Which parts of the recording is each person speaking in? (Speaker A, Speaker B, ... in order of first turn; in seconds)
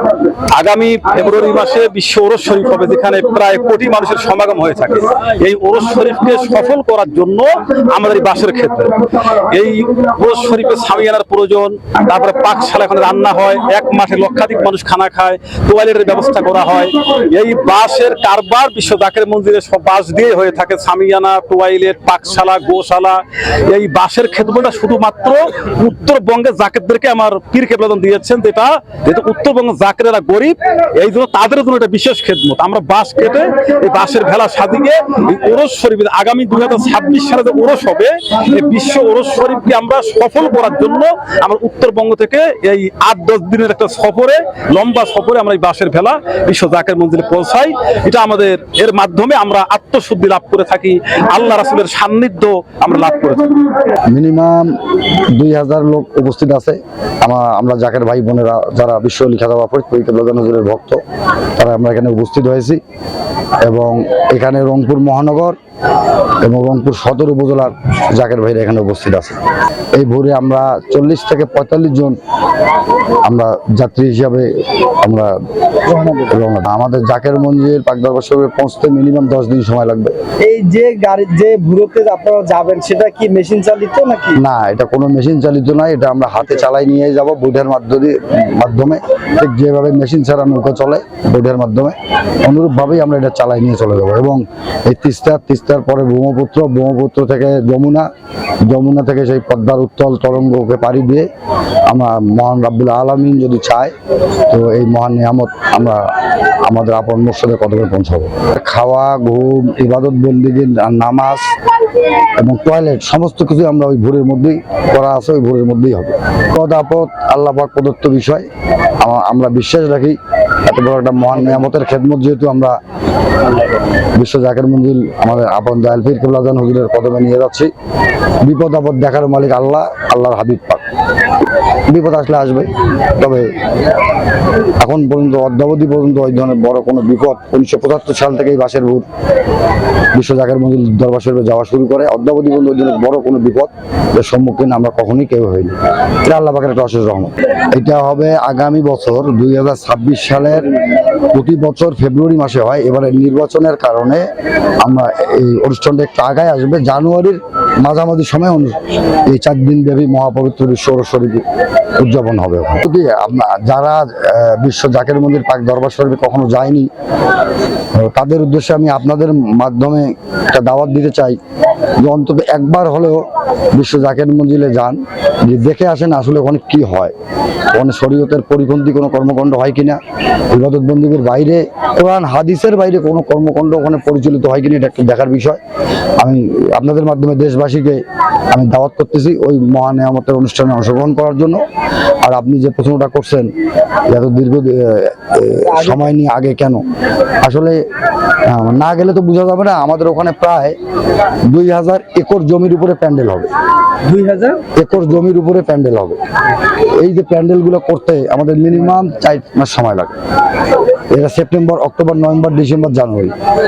Speaker A: 0.5-53.6
Speaker B: 54.1-54.7, 55.3-61.0, 61.6-62.8, 63.6-65.5, 66.4-69.4, 69.9-72.2, 73.2-74.5, 75.0-75.3, 76.3-80.1, 84.3-98.1, 98.7-101.3, 101.9-103.9, 104.5-106.0, 106.7-111.4, 112.4-118.5, 119.0-122.7, 124.2-127.7, 128.4-130.8, 131.9-132.7, 133.2-133.5, 134.8-139.0, 140.1-150.7, 151.3-154.2, 154.8-158.8, 159.3-161.4, 162.0-166.9, 167.9-171.4, 172.0-177.1, 177.7-180.0, 180.5-185.6, 186.2-188.0, 188.5-191.6, 192.2-193.5, 194.1-196.8, 197.4-197.8, 198.5-200.8, 201.5-203.5, 204.8-206.2, 207.0-210.2, 211.1-213.3
Speaker C: 75.9-76.3, 80.4-84.4, 195.7-196.1, 204.1-204.6